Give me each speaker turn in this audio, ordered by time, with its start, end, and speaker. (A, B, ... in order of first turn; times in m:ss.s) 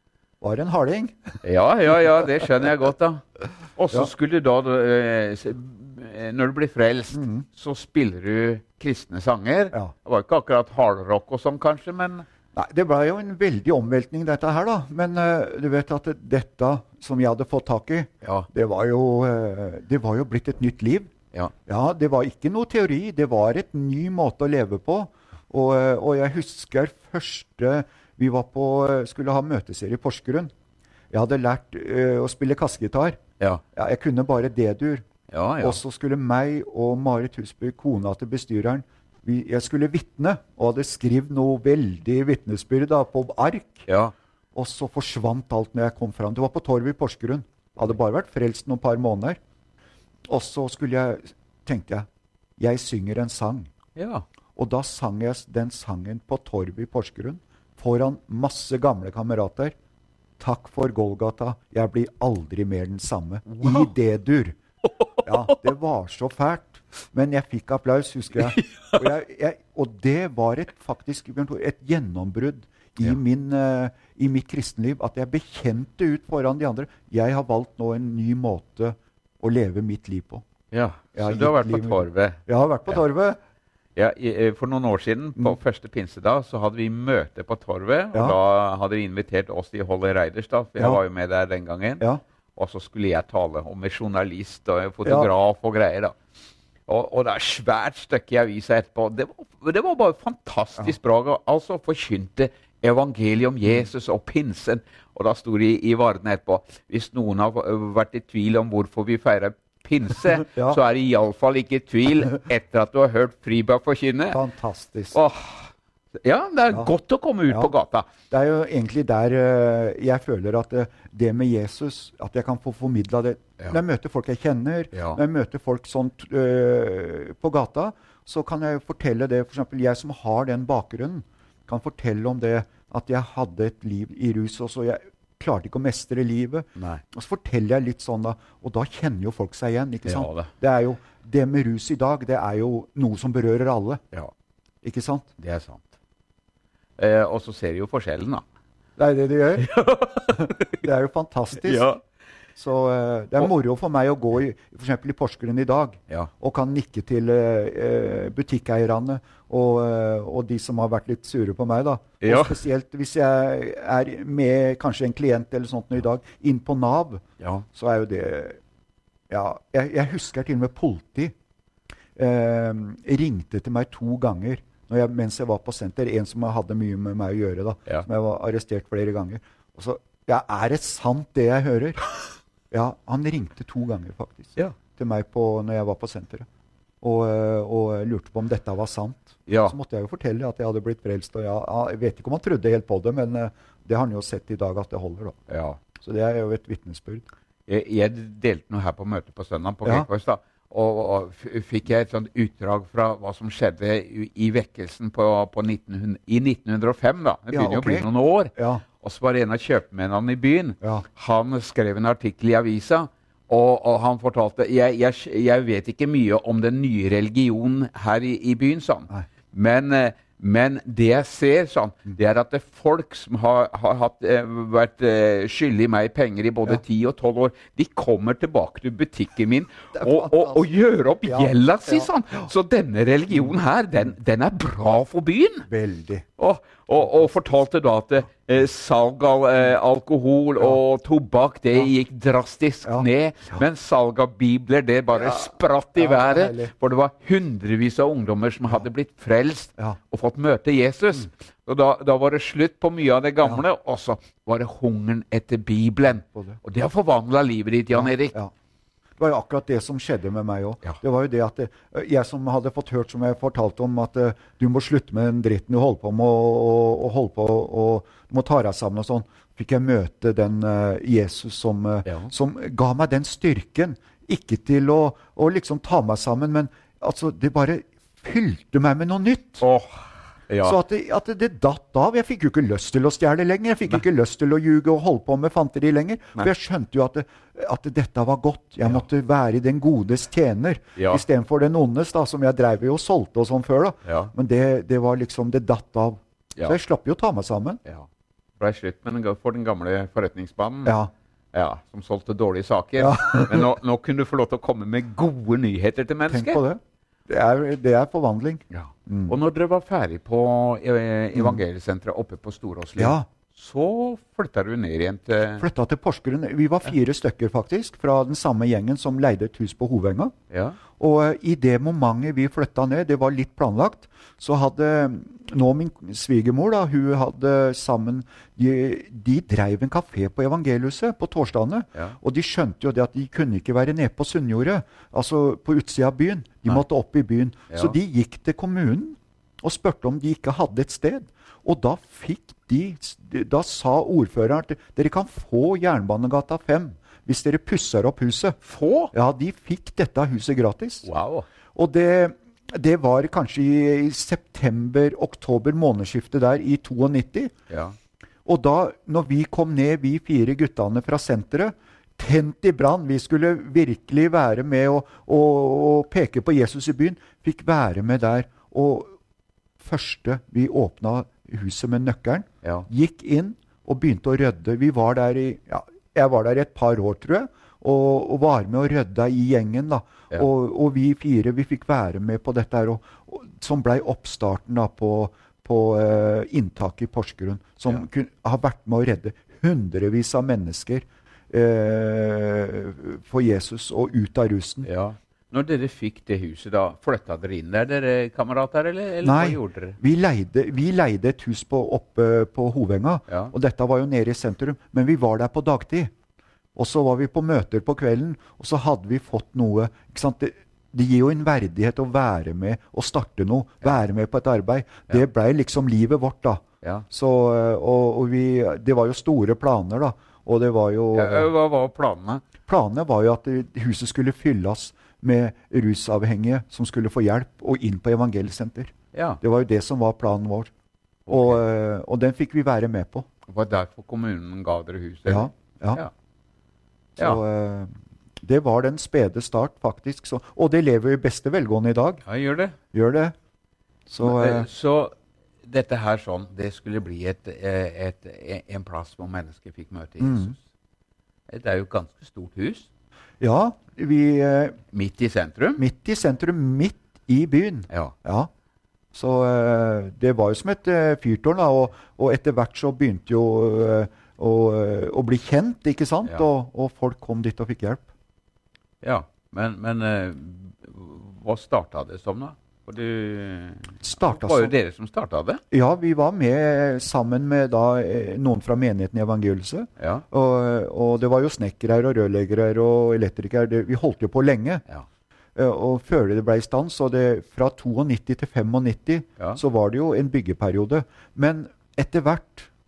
0:00.4-0:01.4 A
0:01.4-0:03.2 B
0:03.8-0:12.2 B
0:07.1-0:07.4 A
0:12.5-0:21.1 A
0:21.7-0:30.5 A
0:31.1-0:33.2 A
0:33.7-0:35.0 A
0:35.3-0:35.8 B
0:35.6-0:43.8 A
0:43.9-0:44.1 B
0:44.5-0:49.4 A
0:50.3-0:52.1 A
0:52.6-0:53.7 A
0:54.0-0:54.2 B
0:54.6-0:59.7 A
1:00.4-1:04.6 A
1:03.5-1:03.9 B
1:05.2-1:20.4 A
1:08.5-1:09.0 B
1:20.7-1:23.0 B
1:21.1-1:23.4 A
1:24.0-1:36.2 B
1:35.0-1:35.3 A
1:36.9-1:54.4 B
1:50.4-1:50.8 A
1:54.3-1:55.2 A
1:55.1-1:55.7 B
1:56.2-1:58.1 B
1:58.3-2:24.0 A
2:04.9-2:05.2 B
2:16.8-2:17.0 B
2:20.0-2:20.5 B
2:24.8-2:25.3 A
2:25.4-2:25.9 B
2:27.0-2:28.4 B
2:29.0-2:29.7 A
2:29.6-2:30.8 B
2:30.3-2:31.9 A
2:31.6-2:32.0 B
2:32.6-2:47.2 A
2:42.2-2:42.6 B
2:47.4-2:47.6 B
2:47.7-2:48.6 A
2:49.3-2:51.3 A
2:52.2-3:02.0 A
3:02.7-3:06.5 A
3:07.0-3:15.4 A
3:09.5-3:09.7 B
3:15.5-3:15.8 B
3:16.0-3:17.2 A
3:17.7-3:55.7 B
3:27.5-3:28.8 A
3:49.9-3:50.6 A
3:51.2-3:52.1 A
3:55.7-3:56.2 A
3:56.4-4:18.3 B
4:05.1-4:06.7 A
4:16.2-4:16.6 A
4:17.9-4:18.5 A
4:19.2-4:39.6 A
4:32.0-4:32.3 B
4:39.6-4:40.8 B
4:40.6-4:57.8 A
4:51.0-4:51.2 B
4:54.0-4:54.3 B
4:58.6-5:01.0 B
5:00.8-5:01.1 A
5:01.5-5:06.6 B
5:03.0-5:03.7 A
5:06.3-5:09.3 A
5:08.7-5:15.6 B
5:13.0-5:13.3 A
5:15.6-5:20.3 A
5:20.5-5:20.8 B
5:21.0-5:48.6 A
5:37.7-5:38.0 B
5:48.6-5:49.1 B
5:49.1-5:51.1 A
5:51.0-5:51.4 B
5:51.7-5:57.5 A
5:57.7-5:57.9 B
5:58.4-6:09.1 A
6:09.8-6:34.9 A
6:34.8-6:40.0 B
6:39.2-6:46.1 A
6:43.3-6:43.5 B
6:46.7-7:01.5 A
7:01.1-7:02.4 B
7:02.7-7:10.7 A
7:09.1-7:09.4 B
7:11.3-7:11.6 B
7:11.3-7:13.3 A
7:13.5-7:16.1 B
7:15.2-7:16.0 A
7:17.2-7:17.9 A
7:18.4-7:22.2 A
7:22.2-7:22.8 B
7:22.9-7:23.3 A
7:24.1-7:24.7 A
7:24.2-7:25.1 B
7:25.6-7:30.6 B
7:30.2-7:30.5 A
7:31.5-7:32.9 B
7:33.4-7:34.8 A
7:34.9-7:35.8 B
7:35.8-7:38.5 A
7:39.1-7:48.0 A
7:49.0-7:55.6 B
7:54.0-7:54.7 A
7:55.7-8:04.8 A
8:00.0-8:00.2 B
8:05.6-8:12.7 A